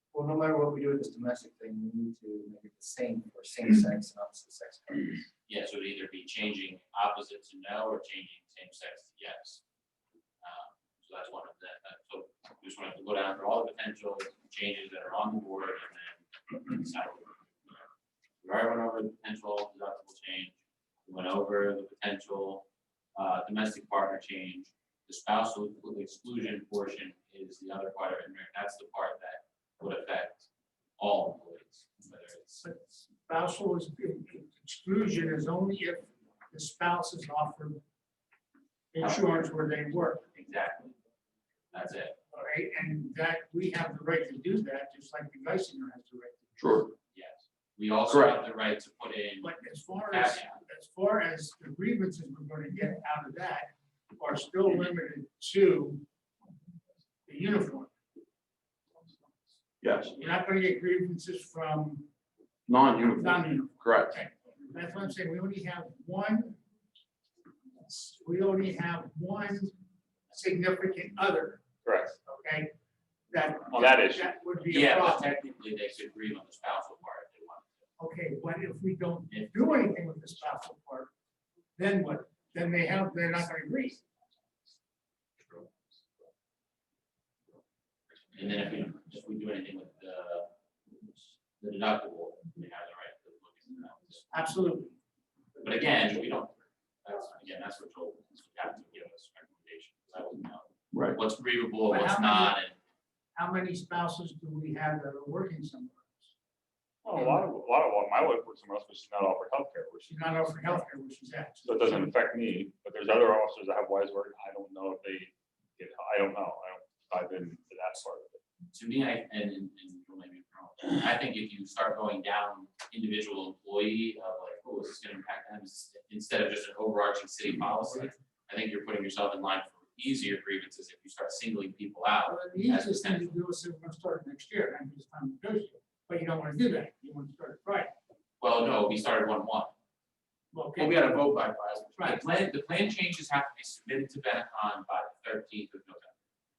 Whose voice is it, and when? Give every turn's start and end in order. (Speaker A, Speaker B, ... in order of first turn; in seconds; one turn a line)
Speaker A: 0.1-5.3
Speaker B: 5.5-9.6
Speaker B: 10.4-17.8
Speaker B: 18.4-32.6
Speaker C: 32.6-37.8
Speaker C: 38.9-40.2
Speaker B: 39.0-39.5
Speaker B: 40.3-41.0
Speaker B: 41.7-42.2
Speaker C: 42.3-46.7
Speaker D: 46.6-46.9
Speaker B: 47.1-50.6
Speaker D: 48.1-48.4
Speaker C: 49.4-56.0
Speaker C: 57.3-57.9
Speaker D: 59.8-60.1
Speaker C: 60.2-62.1
Speaker D: 62.7-64.2
Speaker C: 62.9-66.6
Speaker C: 67.8-69.7
Speaker C: 70.3-71.6
Speaker E: 71.8-72.1
Speaker C: 72.2-72.7
Speaker C: 73.3-75.3
Speaker E: 73.7-74.3
Speaker B: 74.7-77.7
Speaker C: 78.0-81.1
Speaker B: 79.3-79.8
Speaker C: 81.8-84.0
Speaker B: 88.3-90.5
Speaker B: 91.0-94.2
Speaker C: 94.3-95.0
Speaker B: 95.6-102.8
Speaker C: 101.9-102.5
Speaker C: 103.3-106.3
Speaker E: 107.0-110.8
Speaker C: 107.1-107.4
Speaker C: 110.1-112.1
Speaker E: 111.6-118.4
Speaker B: 118.7-133.3
Speaker C: 132.2-137.9
Speaker B: 138.4-139.7
Speaker C: 140.5-141.0
Speaker B: 140.8-146.1
Speaker A: 140.9-141.2
Speaker C: 141.9-142.2